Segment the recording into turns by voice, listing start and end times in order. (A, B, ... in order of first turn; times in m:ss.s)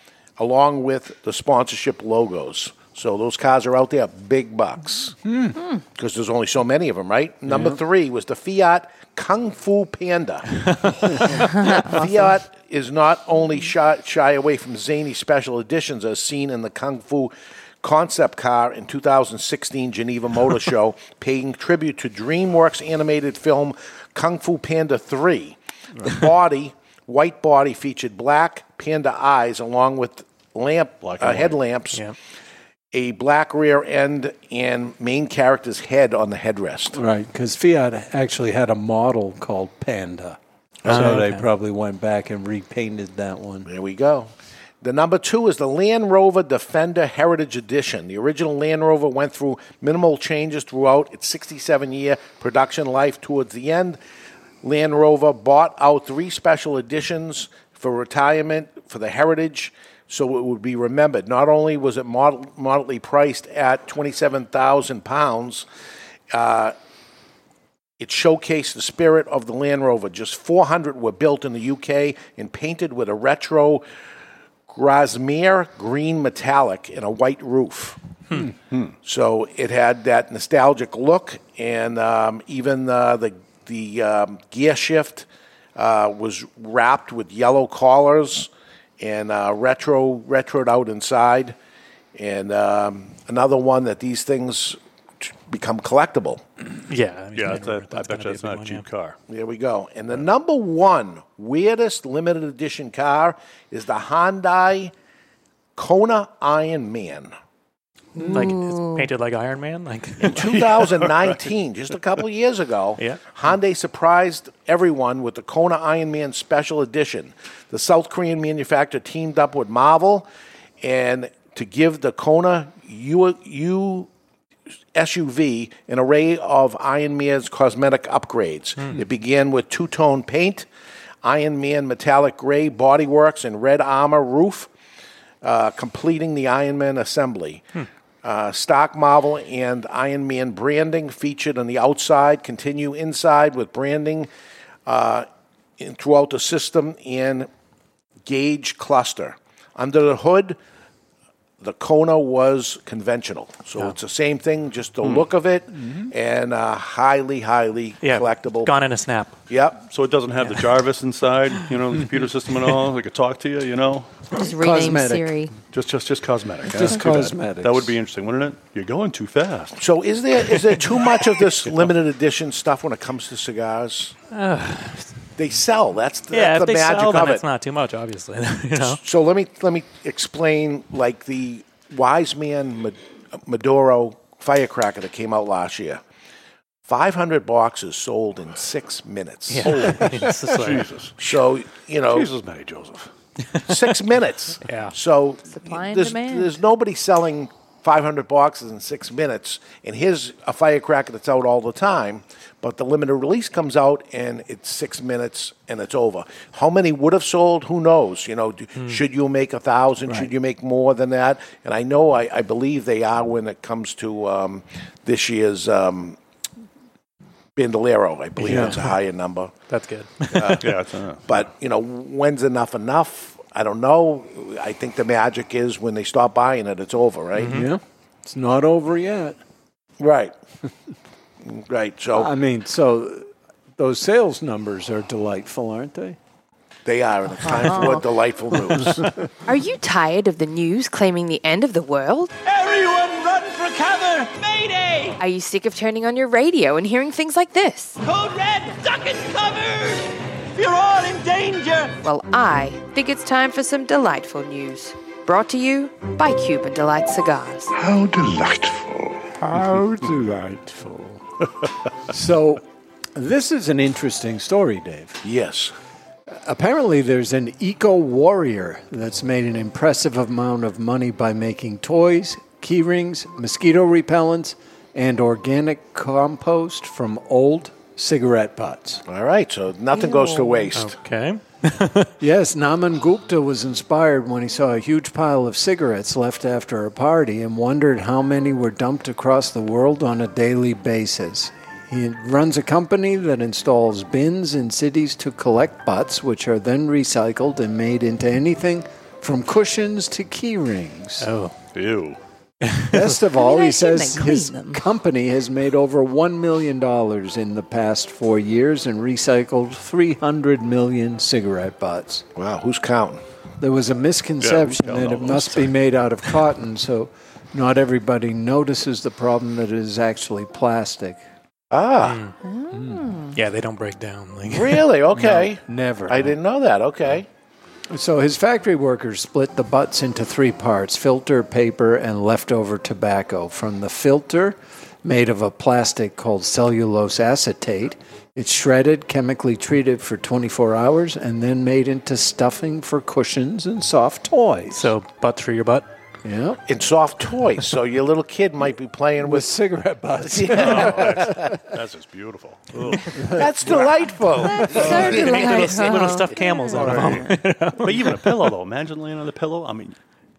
0:00.4-0:05.2 A
0:05.2-0:05.6 B
0:06.0-0:32.0 A
0:31.2-0:31.5 C
0:32.9-0:37.0 A
0:36.9-0:43.7 B
0:40.8-0:41.2 A
0:40.8-0:41.4 D
0:43.6-0:54.0 A
0:54.6-1:05.6 A
1:06.3-1:06.7 A
1:08.0-1:13.8 A
1:14.7-1:18.0 A
1:19.0-1:31.6 A
1:32.1-1:36.4 A
1:36.9-1:38.8 D
1:37.3-1:39.2 C
1:39.3-1:44.9 A
1:45.8-1:47.3 A
1:48.2-1:49.0 E
1:48.3-1:50.5 D
1:50.2-2:00.3 A
1:50.4-1:51.3 C
2:00.8-2:04.1 A
2:04.9-2:10.7 A
2:11.2-2:14.7 A
2:15.4-2:17.7 A
2:18.2-2:24.3 A
2:24.8-2:25.3 A
2:25.8-2:27.5 A
2:28.2-2:30.6 A
2:31.6-2:38.7 A
2:38.0-2:39.4 D
2:39.5-2:39.8 A
2:39.9-2:44.2 C
2:44.3-2:45.5 E
2:44.6-2:45.3 B
2:45.7-2:49.8 C
2:46.7-2:48.0 B
2:49.8-2:54.1 A
2:54.3-2:55.1 D
2:55.4-2:57.4 A
2:56.3-2:59.0 D
2:58.8-3:06.0 A
3:06.9-3:10.2 A
3:09.5-3:10.9 D
3:09.7-3:11.2 C
3:11.2-3:12.3 A
3:12.1-3:13.1 C
3:13.7-3:36.2 A
3:14.6-3:14.9 D
3:15.5-3:16.5 E
3:37.6-3:39.5 A
3:38.4-3:38.9 D
3:38.5-3:38.8 B
3:39.7-3:40.6 D
3:40.3-3:47.6 A
3:40.4-3:41.2 C
3:47.4-3:47.7 D
3:47.4-3:49.4 B
3:50.0-3:50.3 A
3:51.4-3:52.3 A
3:52.1-3:56.2 B
3:56.8-3:59.1 A
3:57.4-3:58.0 E
3:59.4-4:02.3 E
4:02.4-4:05.2 F
4:05.2-4:08.0 E
4:08.0-4:11.9 F
4:12.0-4:17.7 E
4:17.8-4:19.1 A
4:19.5-4:20.0 C
4:19.9-4:21.2 B
4:22.1-4:22.6 B
4:23.2-4:25.2 B
4:25.2-4:25.7 A
4:26.3-4:39.0 B
4:39.0-4:41.0 A
4:39.9-4:40.6 E
4:40.7-4:42.1 D
4:42.2-5:01.3 B
5:01.2-5:01.5 D
5:01.7-5:02.2 C
5:02.6-5:03.0 D
5:02.9-5:12.2 B
5:03.3-5:04.8 E
5:12.3-5:13.2 A
5:13.6-5:21.2 B
5:14.4-5:15.7 C
5:21.7-5:22.2 A
5:22.0-5:22.3 D
5:22.4-5:23.3 E
5:22.7-5:23.0 B
5:23.3-5:24.8 D
5:24.5-5:27.3 A
5:25.2-5:26.3 B
5:27.9-5:44.9 B
5:44.7-5:45.9 D
5:46.2-5:46.6 B
5:46.7-5:49.5 A
5:49.2-5:51.5 B
5:50.2-5:51.5 A
5:50.6-5:53.3 C
5:53.1-5:53.5 B
5:53.3-5:56.9 A
5:54.4-5:57.0 E
5:54.7-5:55.2 B
5:54.8-5:58.3 D
5:56.7-6:00.0 C